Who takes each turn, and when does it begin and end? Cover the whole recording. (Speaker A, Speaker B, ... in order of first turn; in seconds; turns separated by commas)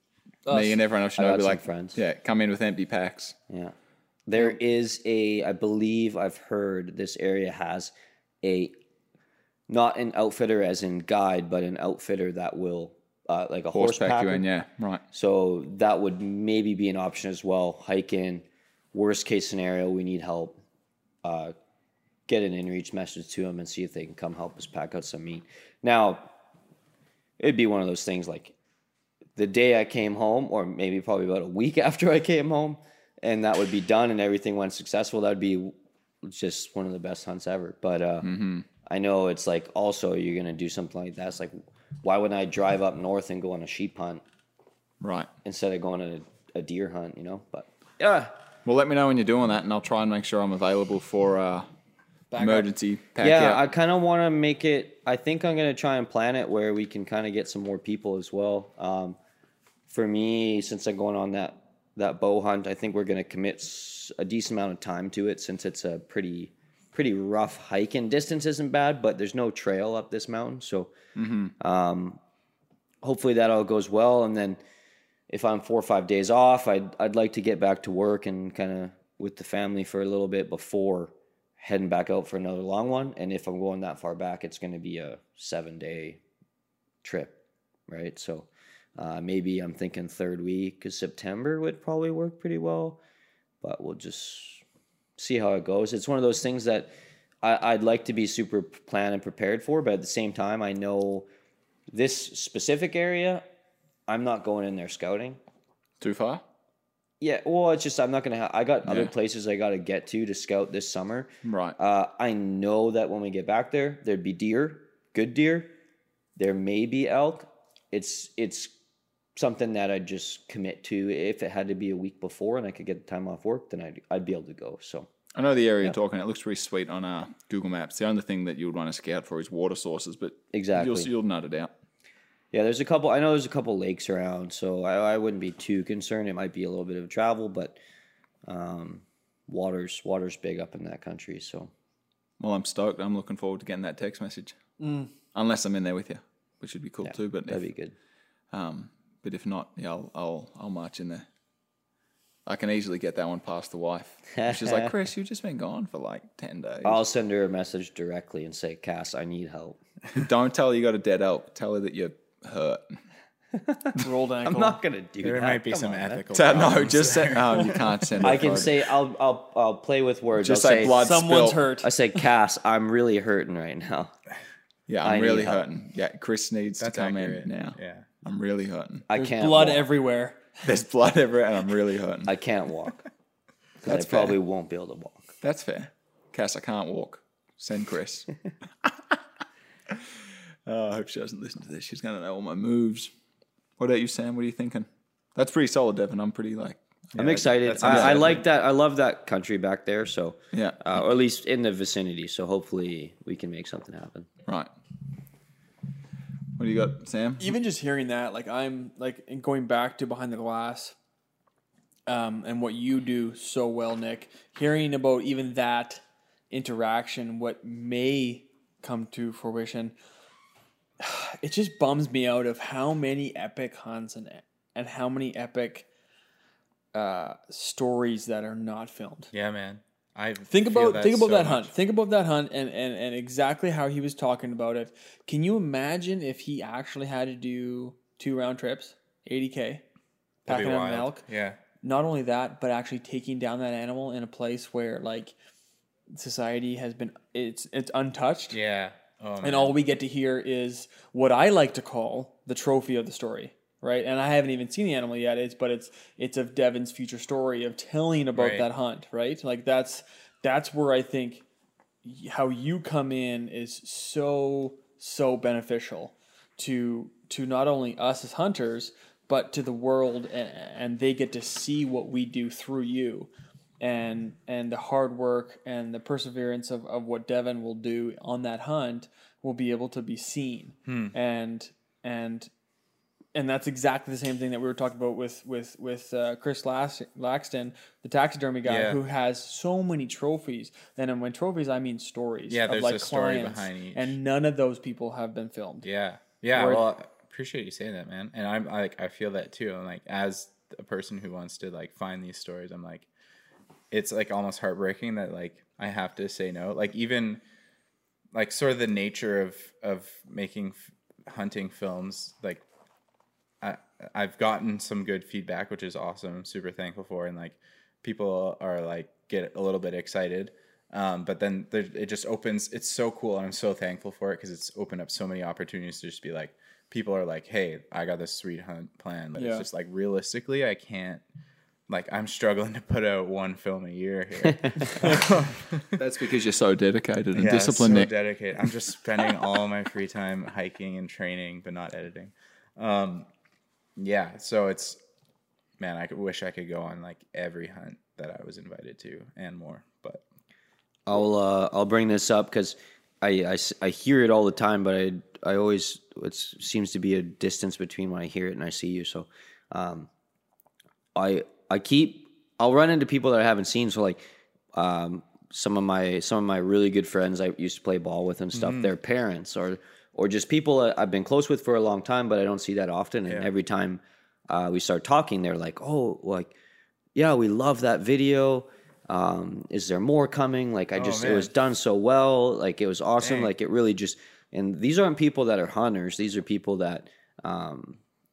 Speaker A: 0.5-0.8, Speaker B: 0.5-3.3, Speaker C: 1.1-2.0, Speaker C: 3.5-3.7, Speaker C: 4.3-8.8, Speaker C: 9.7-14.4, Speaker B: 13.7-15.0, Speaker C: 15.1-20.6, Speaker C: 21.2-21.5, Speaker C: 22.3-26.3, Speaker C: 27.4-28.5, Speaker C: 29.4-38.3, Speaker B: 38.2-38.6, Speaker C: 38.9-44.2, Speaker B: 45.0-45.3, Speaker C: 45.4-48.3, Speaker B: 48.6-51.7, Speaker A: 52.3-52.7, Speaker B: 52.4-53.6, Speaker C: 53.2-59.2, Speaker C: 59.9-70.9, Speaker B: 71.2-71.5, Speaker C: 71.6-72.2, Speaker C: 73.0-74.6, Speaker C: 75.3-86.2, Speaker C: 87.0-93.0, Speaker C: 93.6-94.6, Speaker C: 95.2-101.3, Speaker C: 101.9-103.4, Speaker C: 104.1-105.4, Speaker B: 106.0-106.4, Speaker C: 107.2-115.7, Speaker B: 108.8-109.1, Speaker B: 111.4-111.8, Speaker C: 116.4-118.7, Speaker C: 119.3-125.1, Speaker B: 125.3-131.7, Speaker C: 130.5-131.1, Speaker C: 132.5-137.8, Speaker C: 138.4-141.7, Speaker B: 142.4-144.6, Speaker A: 144.8-145.1, Speaker B: 145.3-147.6, Speaker C: 147.0-147.9, Speaker B: 148.5-151.2, Speaker B: 152.4-157.0, Speaker C: 154.4-154.9, Speaker C: 156.8-159.8, Speaker B: 160.1-162.9, Speaker C: 163.5-166.2, Speaker A: 164.0-164.8, Speaker D: 165.2-168.6, Speaker B: 166.3-168.9, Speaker C: 168.2-171.2, Speaker B: 170.4-171.7, Speaker A: 171.0-171.9, Speaker C: 171.8-174.1, Speaker B: 174.9-179.1, Speaker C: 175.0-175.6, Speaker D: 176.8-178.1, Speaker C: 179.1-179.9, Speaker A: 179.1-180.4, Speaker B: 180.6-182.3, Speaker C: 182.2-183.1, Speaker C: 183.8-185.3, Speaker B: 183.8-184.4, Speaker B: 185.4-188.3, Speaker B: 190.7-193.1, Speaker B: 193.8-196.8, Speaker D: 197.1-198.4, Speaker C: 197.2-204.3, Speaker B: 197.8-198.4, Speaker B: 200.5-200.8, Speaker B: 206.6-207.5, Speaker A: 207.4-210.9, Speaker A: 212.1-219.9, Speaker A: 221.0-225.8, Speaker A: 226.9-229.3, Speaker D: 229.3-231.7, Speaker A: 230.5-239.8, Speaker A: 240.4-241.2, Speaker D: 240.4-241.6, Speaker A: 241.8-245.3, Speaker A: 246.1-248.6, Speaker D: 248.5-249.8, Speaker A: 249.4-261.4, Speaker D: 258.3-258.6, Speaker A: 262.0-282.5, Speaker D: 280.9-281.1, Speaker A: 283.3-295.9, Speaker D: 288.6-289.0, Speaker D: 292.5-294.2, Speaker D: 295.8-303.1, Speaker A: 296.5-296.8, Speaker D: 303.9-307.4, Speaker D: 308.3-312.6, Speaker D: 313.6-331.2, Speaker A: 329.4-329.6, Speaker D: 331.9-336.0, Speaker B: 335.9-338.1, Speaker D: 337.3-343.3, Speaker D: 343.9-345.0, Speaker D: 345.8-350.2, Speaker C: 351.1-360.1, Speaker C: 361.1-376.6, Speaker D: 368.5-368.9, Speaker C: 377.1-388.0, Speaker D: 380.9-381.5, Speaker D: 383.2-383.5